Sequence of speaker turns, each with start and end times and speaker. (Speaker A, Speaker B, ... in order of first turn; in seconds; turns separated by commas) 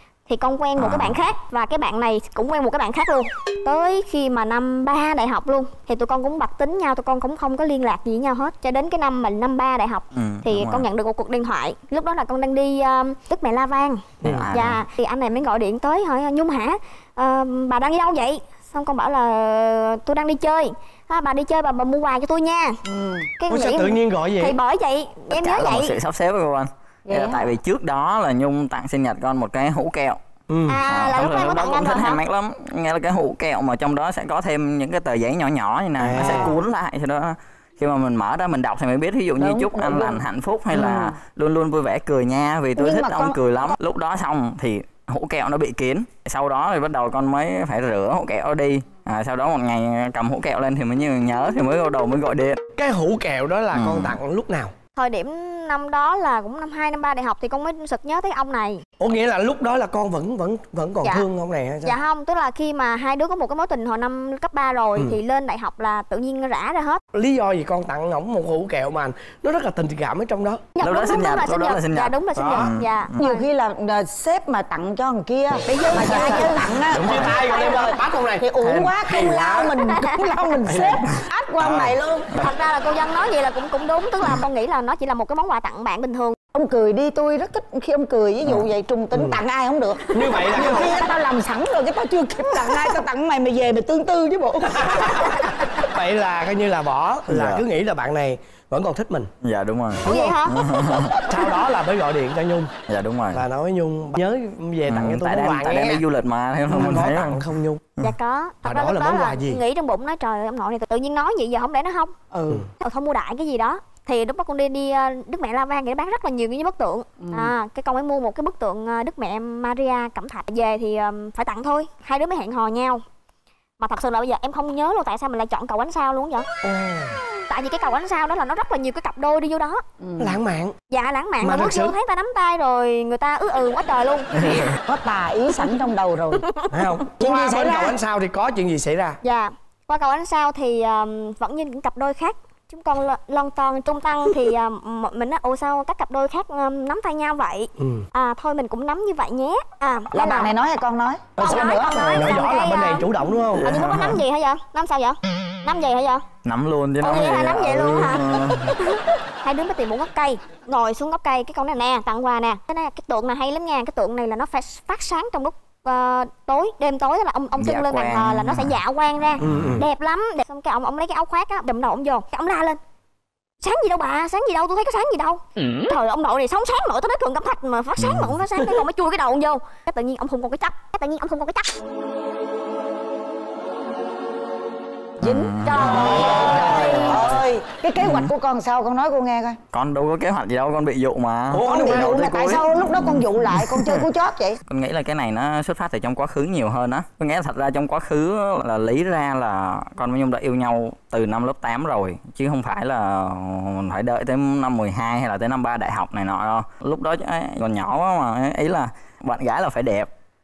Speaker A: 0.3-22.8, Speaker B: 0.8-1.2, Speaker B: 10.1-10.8, Speaker C: 14.2-14.5, Speaker B: 14.2-14.8, Speaker D: 22.9-23.3, Speaker A: 23.4-25.9, Speaker C: 23.5-24.6, Speaker B: 25.3-30.2, Speaker A: 27.1-27.4, Speaker C: 30.5-30.8, Speaker A: 30.7-32.2, Speaker B: 30.9-52.6, Speaker C: 36.0-36.5, Speaker D: 36.1-36.5, Speaker D: 39.4-41.1, Speaker D: 42.8-43.8, Speaker C: 52.8-54.7, Speaker B: 53.7-54.1, Speaker A: 55.0-58.8, Speaker C: 59.0-62.0, Speaker A: 61.8-67.0, Speaker C: 67.1-70.6, Speaker A: 70.8-73.4, Speaker B: 70.8-73.2, Speaker C: 72.3-72.8, Speaker D: 73.2-82.3, Speaker C: 75.7-79.7, Speaker C: 80.7-81.0, Speaker C: 81.6-82.0, Speaker A: 82.4-86.3, Speaker D: 86.5-95.5, Speaker C: 89.1-89.4, Speaker C: 90.1-91.0, Speaker C: 94.8-95.3, Speaker C: 95.9-99.3, Speaker B: 97.3-97.6, Speaker B: 99.4-101.1, Speaker A: 100.0-100.7, Speaker D: 100.1-101.0, Speaker C: 101.3-102.7, Speaker B: 102.9-103.4, Speaker C: 103.3-106.0, Speaker B: 104.9-107.4, Speaker C: 106.7-107.8, Speaker A: 108.0-112.1, Speaker C: 108.6-109.6, Speaker D: 112.3-112.7, Speaker A: 112.8-123.0, Speaker D: 117.2-117.5, Speaker A: 123.8-126.4, Speaker C: 126.6-127.2, Speaker A: 127.5-129.8, Speaker D: 130.0-130.4, Speaker C: 130.2-130.7, Speaker A: 130.9-134.4, Speaker C: 131.4-131.9, Speaker D: 134.8-136.4, Speaker C: 136.7-139.2, Speaker D: 137.2-138.0, Speaker A: 139.2-150.5, Speaker C: 147.8-148.1, Speaker D: 150.1-152.5, Speaker C: 151.4-154.0, Speaker A: 151.4-156.2, Speaker B: 153.6-154.1, Speaker B: 156.4-158.6, Speaker A: 157.0-172.8, Speaker B: 167.6-168.8, Speaker C: 169.4-169.8, Speaker B: 169.4-169.7, Speaker A: 173.6-181.6, Speaker B: 178.0-178.3, Speaker D: 185.2-189.6, Speaker B: 185.2-187.3, Speaker C: 185.7-187.4, Speaker B: 188.0-188.3, Speaker B: 189.7-194.0, Speaker C: 191.5-192.3, Speaker D: 191.5-194.6, Speaker B: 194.7-210.1